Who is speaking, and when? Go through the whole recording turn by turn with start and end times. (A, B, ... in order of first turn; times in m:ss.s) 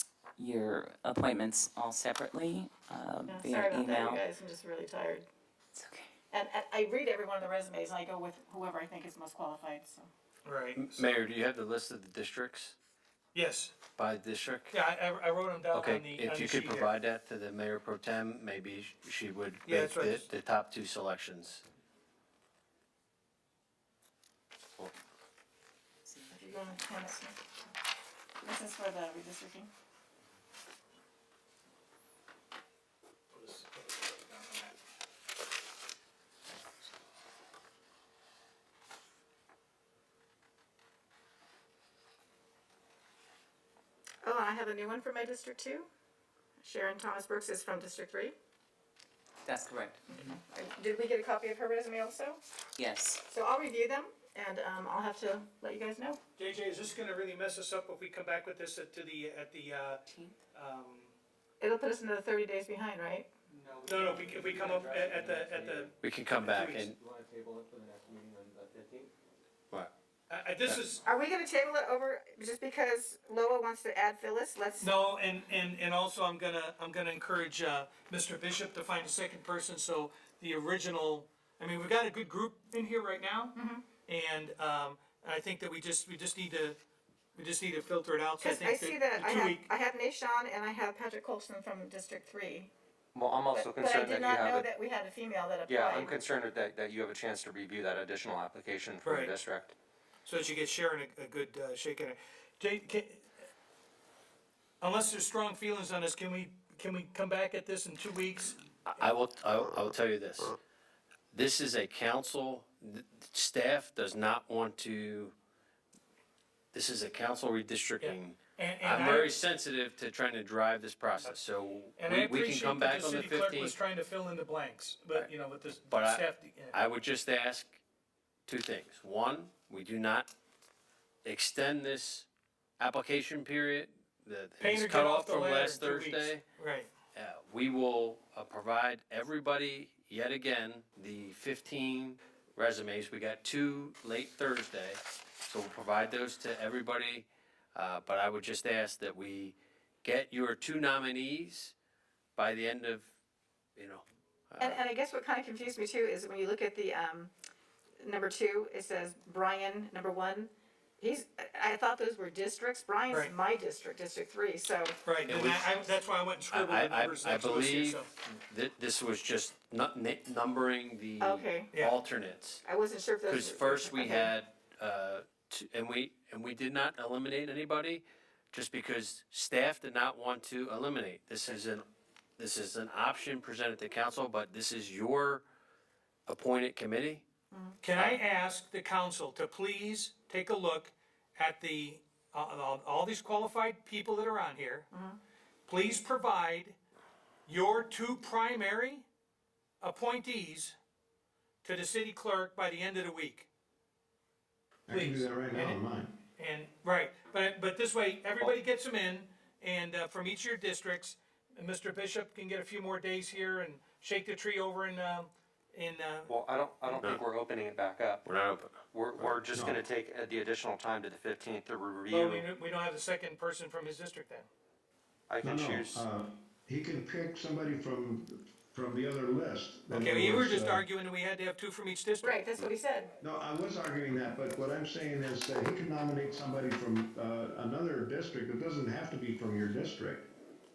0:00.4-0:04.2 A
0:03.2-0:05.3 B
0:05.7-0:06.1 A
0:06.3-0:10.1 B
0:10.4-0:11.1 C
0:10.8-0:12.8 D
0:13.3-0:13.8 C
0:14.0-0:14.8 D
0:14.7-0:16.9 C
0:15.7-0:21.6 D
0:19.6-0:20.3 C
0:26.0-0:27.3 A
0:26.3-0:27.4 B
0:28.4-0:29.7 B
0:33.3-0:34.7 C
0:44.2-0:45.9 B
0:46.6-0:48.3 B
0:49.4-0:50.0 A
0:50.1-0:52.4 B
0:52.8-0:53.2 A
0:53.3-0:56.2 B
0:56.4-1:00.0 C
1:00.5-1:01.1 C
1:01.6-1:03.3 B
1:03.5-1:09.1 E
1:03.8-1:05.9 C
1:06.0-1:07.0 D
1:06.5-1:06.8 C
1:10.3-1:11.0 C
1:11.0-1:14.9 B
1:14.8-1:23.6 C
1:23.6-1:23.8 B
1:24.1-1:26.8 C
1:27.4-1:29.7 C
1:28.4-1:32.7 B
1:33.1-1:34.7 E
1:33.5-1:36.2 B
1:35.7-1:39.8 E
1:39.0-1:39.3 C
1:40.2-1:43.3 C
1:44.8-1:48.6 C
1:48.9-1:50.6 D
1:51.3-1:55.4 D
1:56.7-2:03.8 D
1:58.0-1:59.4 C
2:02.0-2:06.8 C
2:05.9-2:07.8 D
2:08.5-2:10.3 D
2:11.2-2:12.3 D
2:12.8-2:16.4 D
2:14.6-2:16.9 C
2:17.1-2:31.7 D
2:32.4-2:33.1 D
2:33.8-2:34.8 D
2:34.6-2:37.3 B
2:38.0-2:45.0 B
2:45.0-2:48.1 C
2:45.3-2:45.8 D
2:46.5-2:52.6 D
2:51.2-2:51.7 B
2:52.6-2:54.3 B
2:53.3-3:01.8 D
3:02.4-3:05.4 D
3:06.3-3:07.2 D
3:07.5-3:07.8 B
3:07.8-3:14.9 C
3:08.0-3:08.2 D
3:14.9-3:15.2 B
3:15.7-3:16.8 C
3:17.5-3:19.0 C
3:19.8-3:20.8 C
3:21.6-3:23.5 C
3:24.9-3:26.2 F
3:24.9-3:25.8 C
3:26.4-3:36.4 C
3:36.3-3:38.3 E
3:38.2-3:39.3 D
3:38.9-3:42.4 E
3:39.5-3:39.8 F
3:42.1-3:44.5 C
3:45.3-3:46.0 E
3:45.4-3:50.8 F
3:49.9-3:52.4 C
3:52.2-3:53.1 B
3:53.2-4:00.3 F